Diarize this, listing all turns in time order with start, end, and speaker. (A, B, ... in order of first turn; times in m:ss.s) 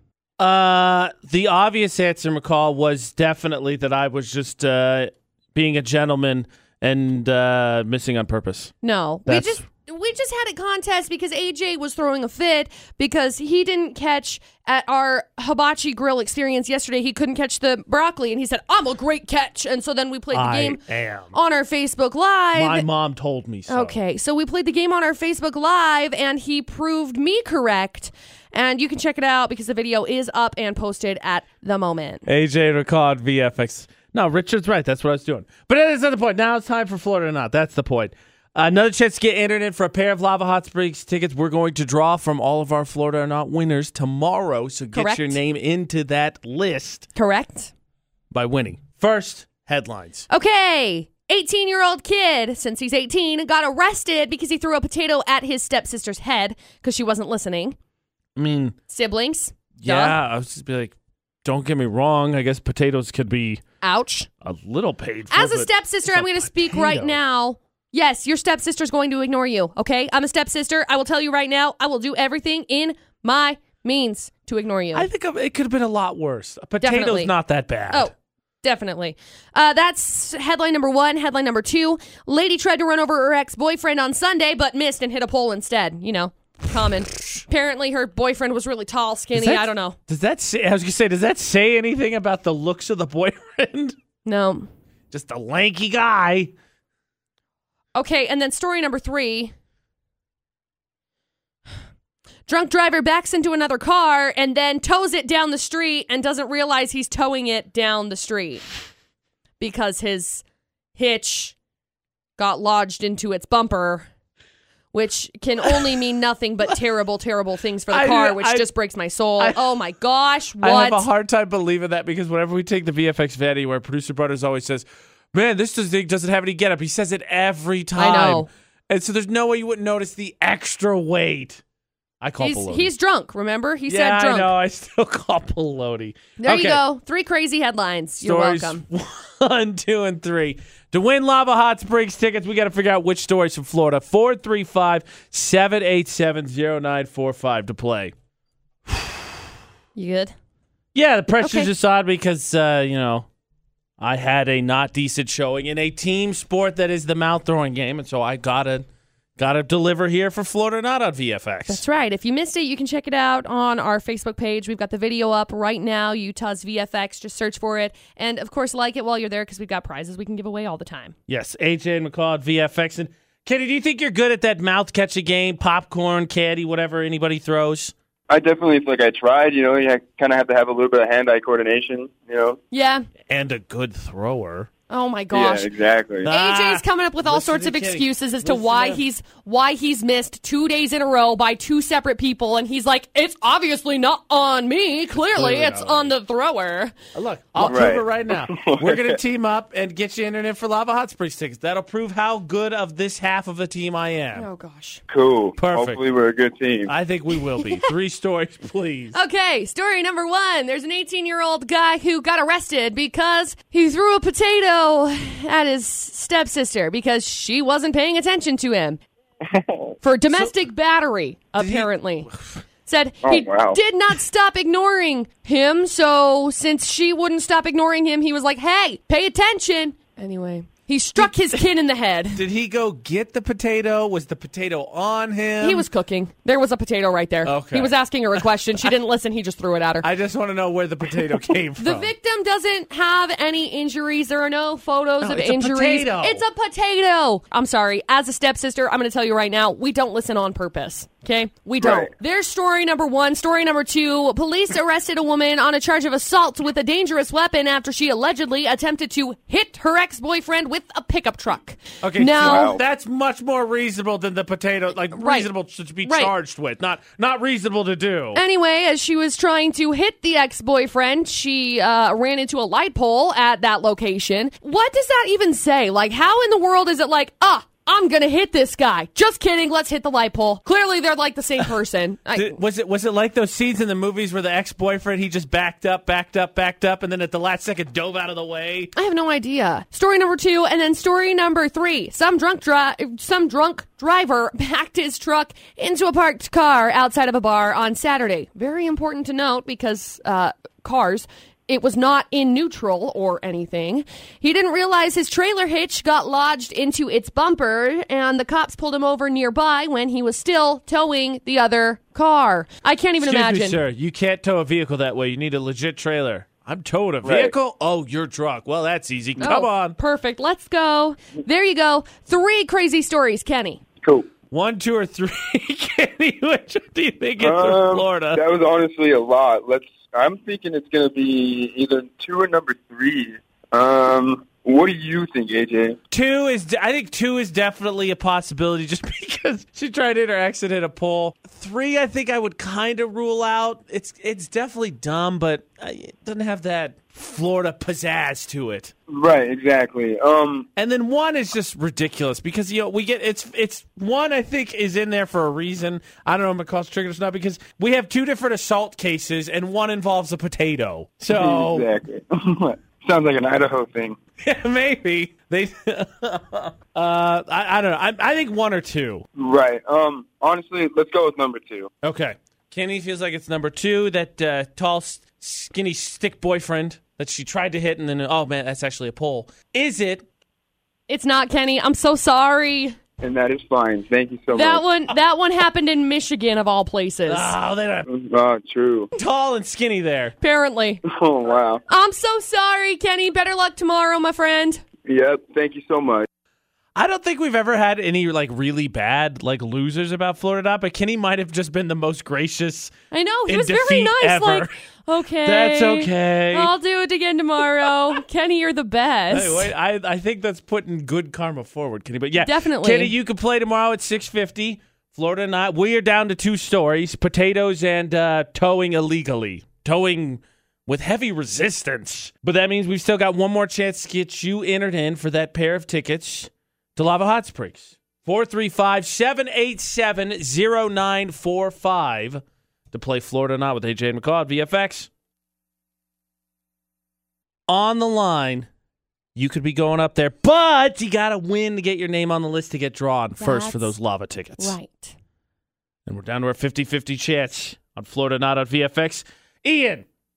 0:00.4-0:08.7 A
0:08.8-0:22.9 B
0:09.3-0:09.6 A
0:20.3-0:21.4 A
0:22.6-0:24.0 A
0:23.7-0:32.3 B
0:32.3-0:47.1 A
0:44.9-0:45.4 B
0:47.2-0:47.7 B
0:48.3-0:50.3 A
0:50.3-0:57.8 B
0:58.4-0:58.8 A
0:58.9-1:00.2 B
0:59.8-1:00.9 A
1:01.4-1:03.6 A
1:03.8-1:04.3 B
1:04.4-1:07.2 A
1:05.3-1:15.1 B
1:14.9-1:18.1 A
1:16.8-1:17.4 B
1:17.9-1:30.0 B
1:29.3-1:34.0 A
1:34.2-1:34.7 B
1:35.1-1:36.5 A
1:38.0-1:39.5 B
1:42.5-1:48.7 B
1:49.6-1:50.4 B
1:51.0-1:51.6 B
1:52.4-1:54.1 B
1:54.9-2:01.1 B
1:57.9-1:58.7 A
1:59.4-1:59.6 A
2:00.6-2:11.6 A
2:08.0-2:08.5 B
2:12.2-2:12.9 A
2:12.4-2:14.5 B
2:13.9-2:16.8 A
2:16.4-2:18.8 B
2:18.2-2:28.1 A
2:28.9-2:29.3 A
2:30.0-2:30.3 B
2:30.9-2:33.3 A
2:31.4-2:31.7 B
2:34.0-2:38.9 A
2:39.4-2:41.8 A
2:41.7-2:51.2 B
2:51.3-2:57.9 A
2:58.3-3:02.6 C
3:02.7-3:03.0 B
3:03.3-3:04.7 A
3:04.9-3:05.7 B
3:05.3-3:06.3 C
3:06.2-3:09.0 A
3:06.3-3:17.0 B
3:15.3-3:16.1 A
3:17.1-3:24.5 A
3:17.6-3:19.2 C
3:24.4-3:25.0 B
3:25.1-3:26.9 C
3:25.6-3:26.0 A
3:26.9-3:29.2 A
3:27.6-3:27.9 B
3:29.1-3:39.0 B
3:39.5-3:39.9 C
3:40.0-3:42.3 B
3:41.6-3:42.5 A
3:42.9-3:52.4 B
3:43.2-3:43.8 C
3:52.4-3:55.9 A
3:55.6-4:00.1 B
3:57.4-3:58.9 A
4:00.0-4:02.1 A
4:01.8-4:22.8 B
4:05.2-4:06.4 A
4:11.8-4:12.1 C
4:22.0-4:28.4 A
4:22.4-4:22.8 C
4:25.2-4:25.5 B
4:26.0-4:26.3 B
4:28.3-4:42.6 B
4:42.3-4:48.9 A
4:49.0-5:13.8 B
5:13.2-5:20.0 A
5:17.2-5:17.5 C
5:19.4-5:23.8 B
5:24.0-5:24.3 C
5:24.5-5:28.4 A
5:27.4-5:36.0 C
5:36.1-5:48.9 A
5:49.1-5:50.7 C
5:50.8-6:01.9 A
6:01.3-6:04.2 C
6:04.4-6:09.2 A
6:09.4-6:11.9 C
6:12.0-6:20.3 A
6:21.1-6:23.0 B
6:23.2-6:24.8 C
6:24.5-6:27.5 B
6:27.3-6:28.1 A
6:28.1-6:29.1 C
6:29.2-6:30.3 A
6:30.4-6:31.0 B
6:31.1-6:31.8 C
6:31.9-6:34.8 B
6:35.0-6:36.3 C
6:37.0-6:42.9 A
6:43.1-6:49.7 B
6:43.5-6:44.7 A
6:45.4-6:46.7 A
6:49.3-7:15.1 A
6:52.4-6:53.1 B
7:17.7-7:18.7 A
7:19.4-7:24.8 A
7:23.4-7:23.9 B
7:24.6-7:25.2 B
7:26.1-7:30.1 A